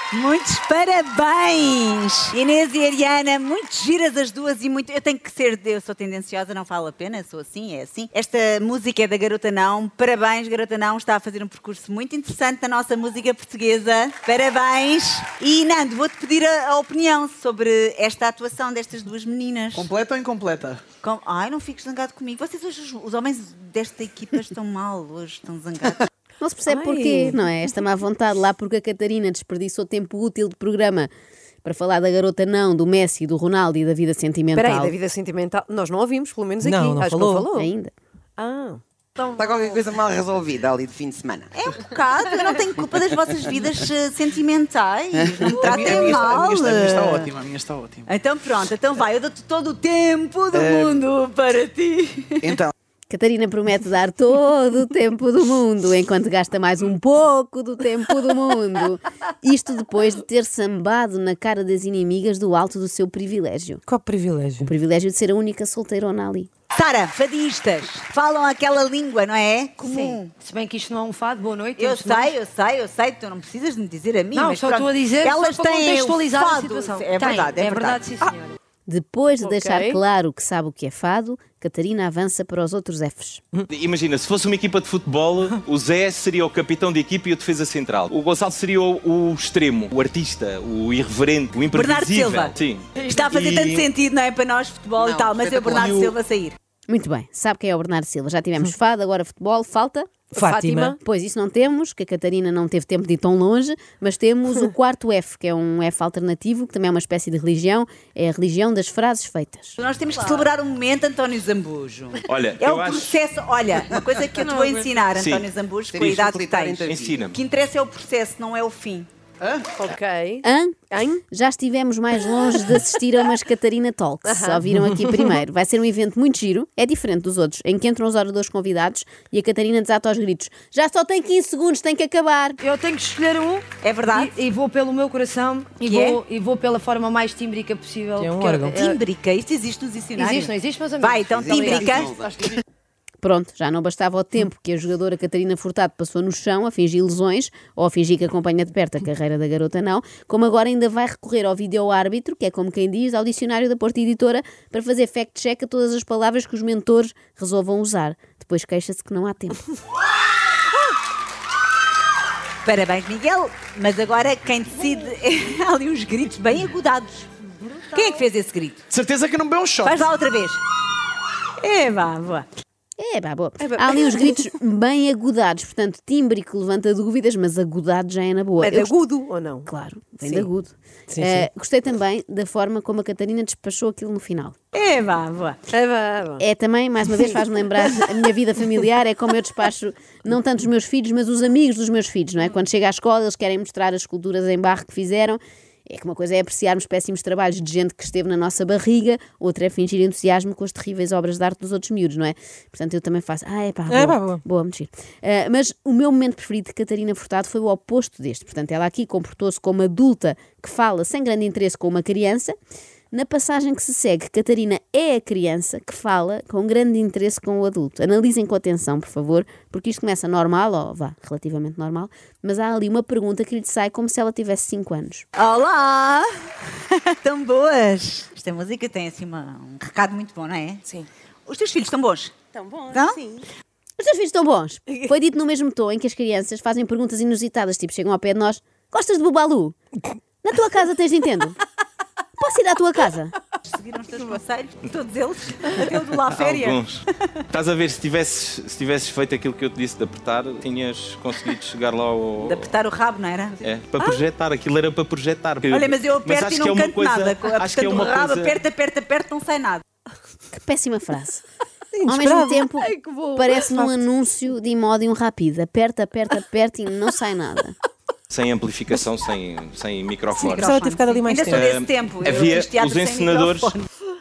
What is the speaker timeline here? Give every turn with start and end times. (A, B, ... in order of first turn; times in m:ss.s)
0:00.1-0:19.9 A
0:19.7-0:20.8 B
0:21.0-0:26.1 A
0:26.4-0:31.1 C
0:26.7-0:27.4 D
0:31.6-0:34.9 C
0:34.5-0:37.7 D
0:36.6-0:37.5 E
0:37.5-0:37.9 C
0:38.4-0:39.5 D
0:39.4-0:41.5 F
0:41.6-0:47.3 A
0:45.2-0:46.1 F
0:45.7-0:48.1 B
0:48.1-0:52.6 A
0:50.5-0:51.0 B
0:52.4-0:52.7 B
0:53.1-1:03.8 C
1:03.9-1:04.7 E
1:04.6-1:06.5 C
1:06.8-1:10.3 A
1:09.8-1:12.4 G
1:11.8-1:18.0 A
1:14.3-1:18.6 G
1:18.9-1:23.4 C
1:19.4-1:20.0 D
1:23.7-1:33.9 H
1:31.7-1:36.6 A
1:35.0-1:36.1 F
1:35.8-1:36.1 H
1:36.9-1:40.3 C
1:40.3-1:41.0 D
1:40.4-1:40.9 E
1:41.0-1:49.8 C
1:49.8-1:59.1 A
1:52.2-1:53.2 H
1:54.4-1:54.9 D
1:55.2-1:55.5 H
1:55.9-1:57.2 F
1:56.9-1:57.4 H
1:59.4-1:59.7 B
1:59.8-2:01.2 D
2:00.4-2:12.6 C
2:04.3-2:04.6 D
2:12.6-2:19.0 G
2:13.8-2:14.4 A
2:15.8-2:16.2 A
2:18.2-2:18.8 E
2:18.4-2:22.1 A
2:20.2-2:21.6 G
2:21.2-2:22.5 F
2:23.2-2:39.6 C
2:42.6-2:47.3 A
2:47.7-2:48.1 D
2:47.9-2:48.8 A
2:48.9-2:50.1 B
2:49.8-2:50.6 A
2:51.6-2:52.5 A
2:53.0-2:59.0 C
2:53.6-2:54.4 D
2:58.6-2:59.7 D
2:59.7-3:04.5 C
3:00.2-3:00.5 D
3:01.1-3:01.5 E
3:04.7-3:05.6 A
3:05.7-3:06.4 D
3:06.4-3:32.5 C
3:23.9-3:24.4 E
3:33.1-3:45.3 C
3:45.4-3:50.8 A
3:51.5-3:52.3 A
3:52.5-3:53.4 G
3:52.9-3:53.2 A
3:54.0-3:59.8 C
4:00.4-4:01.6 C
4:02.4-4:03.4 C
4:03.6-4:06.8 A
4:06.3-4:12.7 H
4:12.4-4:14.2 A
4:13.6-4:18.6 H
4:15.7-4:19.8 A
4:20.5-4:21.4 C
4:21.9-4:24.1 D
4:22.1-4:27.8 C
4:22.1-4:22.4 E
4:28.3-4:30.8 H
4:30.4-4:33.9 A
4:30.6-4:31.6 E
4:31.5-4:33.7 H